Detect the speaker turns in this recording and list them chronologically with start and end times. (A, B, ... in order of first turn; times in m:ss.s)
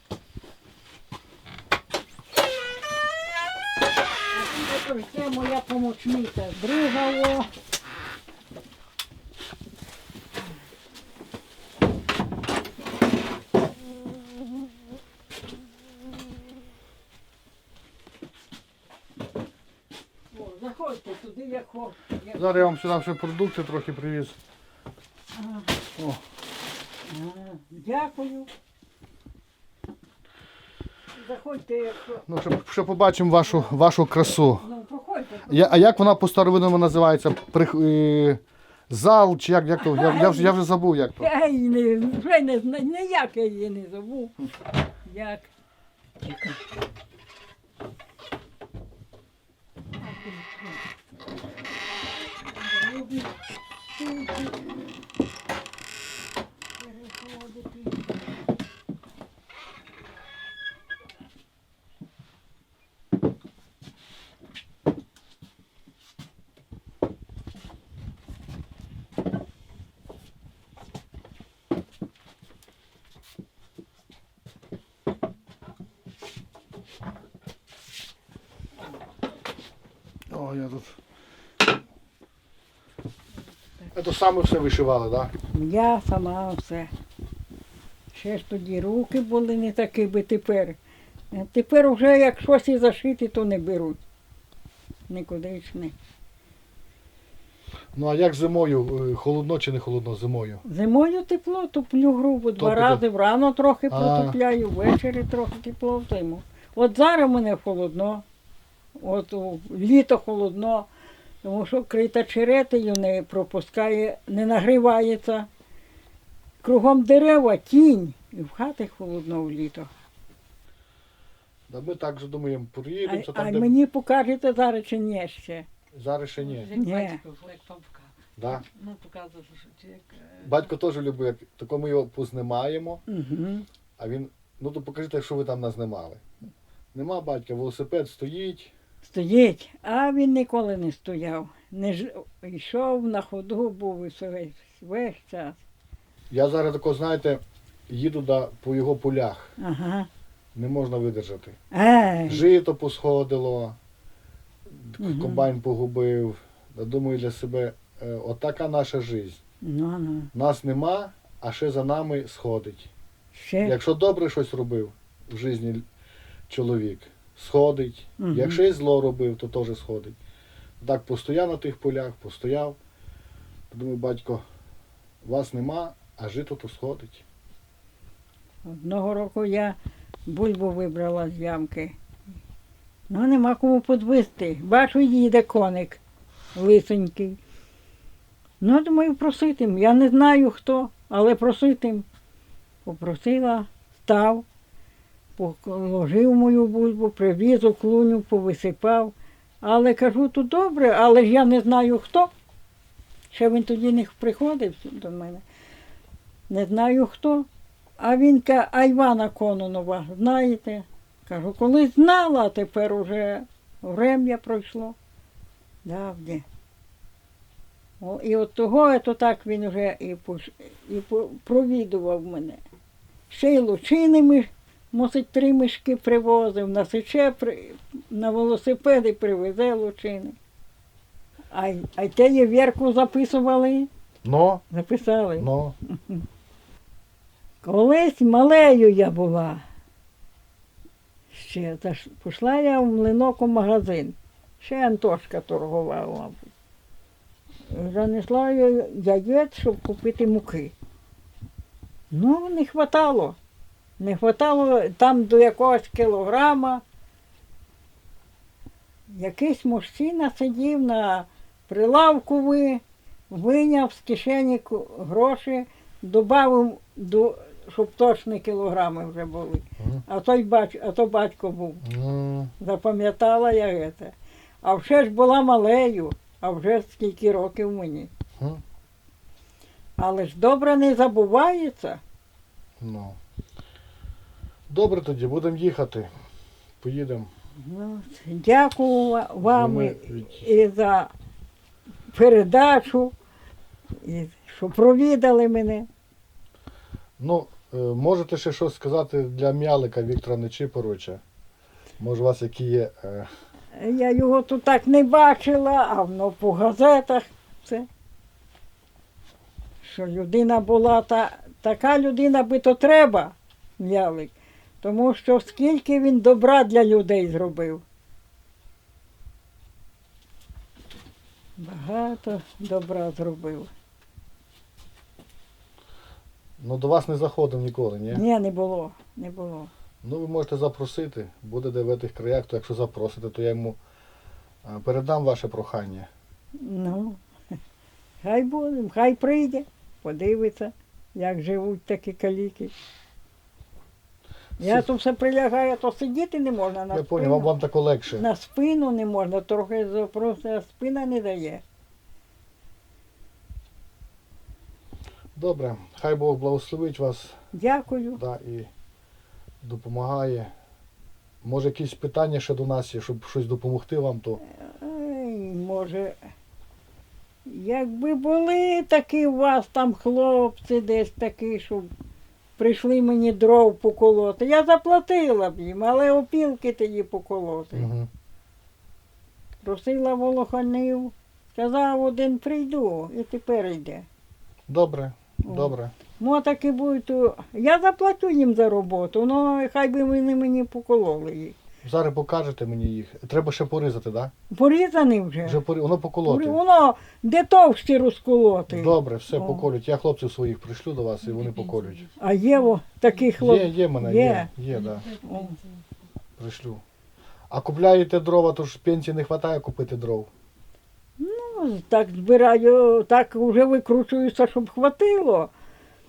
0:04.3-0:07.5 A
0:20.3-0:22.7 A
0:22.3-0:24.4 B
0:25.4-0:25.7 A
0:27.0-0:28.5 A
0:31.1-0:32.2 A
0:32.3-0:34.6 B
0:33.5-0:33.7 A
0:34.6-0:35.9 A
0:35.5-0:41.3 B
0:39.8-0:40.5 A
0:41.2-0:44.3 A
0:45.0-0:45.5 A
0:46.2-0:46.6 A
0:50.0-0:50.8 A
0:52.4-0:53.3 A
0:53.9-0:54.5 A
0:56.8-0:58.0 A
1:20.3-1:21.0 B
1:23.9-1:25.3 B
1:25.5-1:26.9 A
1:28.1-1:30.8 A
1:31.3-1:34.0 A
1:35.1-1:35.9 A
1:37.9-1:40.6 B
1:40.6-1:48.2 A
1:42.6-1:43.0 B
1:43.9-1:44.4 B
1:49.0-1:50.9 A
1:51.4-1:55.5 A
1:56.6-1:59.9 A
2:01.7-2:03.7 B
2:03.0-2:05.7 A
2:05.9-2:06.8 B
2:06.7-2:07.2 A
2:06.8-2:08.1 C
2:08.4-2:08.6 B
2:08.7-2:10.4 C
2:10.4-2:13.0 B
2:13.1-2:13.6 A
2:14.0-2:16.2 B
2:16.9-2:18.7 B
2:19.0-2:25.6 A
2:26.3-2:29.5 B
2:29.6-2:30.1 A
2:30.5-2:31.6 B
2:31.7-2:32.4 A
2:32.3-2:33.8 B
2:34.7-2:39.4 B
2:35.0-2:35.5 A
2:39.6-2:40.3 A
2:40.3-2:42.9 B
2:43.3-2:43.8 A
2:43.6-2:45.8 B
2:46.5-2:50.2 B
2:48.2-2:48.6 A
2:50.8-2:52.8 B
2:53.7-2:54.4 B
2:55.2-2:57.2 B
2:58.6-3:01.9 A
3:03.1-3:06.0 A
3:06.5-3:07.4 A
3:08.6-3:12.0 A
3:12.8-3:14.4 A
3:15.4-3:22.3 A
3:23.3-3:25.4 A
3:26.5-3:27.5 A
3:28.0-3:35.0 A
3:35.8-3:36.4 A
3:38.0-3:42.6 A
3:43.3-3:50.4 A
3:51.5-3:53.9 A
3:54.2-3:54.6 B
3:54.7-3:56.2 A
3:55.4-3:55.7 B
3:57.6-3:59.6 A
4:01.3-4:06.4 A
4:07.7-4:10.7 A
4:12.1-4:13.4 A
4:14.0-4:16.8 A
4:19.1-4:31.8 A
4:29.8-4:30.0 B
4:31.8-4:32.5 B
4:32.6-4:38.1 A
4:40.0-4:42.0 A
4:42.8-4:43.2 B
4:44.7-4:46.1 B
4:46.8-4:47.3 B
4:47.6-4:51.1 A
4:49.4-4:50.5 B
4:52.1-4:53.1 A
4:54.0-4:55.9 A
4:57.2-5:01.2 B
5:02.0-5:03.3 B
5:03.8-5:07.9 A
5:09.8-5:17.8 A
5:21.6-5:23.7 A
5:26.6-5:28.2 B
5:28.1-5:29.7 A
5:30.0-5:33.8 B
5:34.6-5:36.1 B
5:36.6-5:37.2 A
5:38.2-5:42.7 A
5:44.6-5:44.8 B
5:44.6-5:47.5 A
5:46.9-5:48.2 B
5:48.1-5:51.6 A
5:55.3-5:57.4 B
5:57.5-5:58.2 A
5:58.2-5:58.7 B
5:59.6-6:00.5 B
6:01.4-6:04.4 B
6:04.4-6:06.2 A
6:07.4-6:11.9 A
6:12.6-6:17.9 A
6:17.7-6:18.1 B
6:19.6-6:24.0 A
6:24.7-6:25.9 B
6:25.4-6:31.6 A
6:31.8-6:34.3 B
6:34.5-6:35.6 A
6:35.4-6:36.6 B
6:36.2-6:39.7 A
6:38.7-6:42.1 B
6:42.2-6:44.5 A
6:43.3-6:45.2 B
6:45.2-6:45.6 A
6:46.4-6:46.8 B
6:47.5-6:50.3 B
6:51.2-6:55.5 A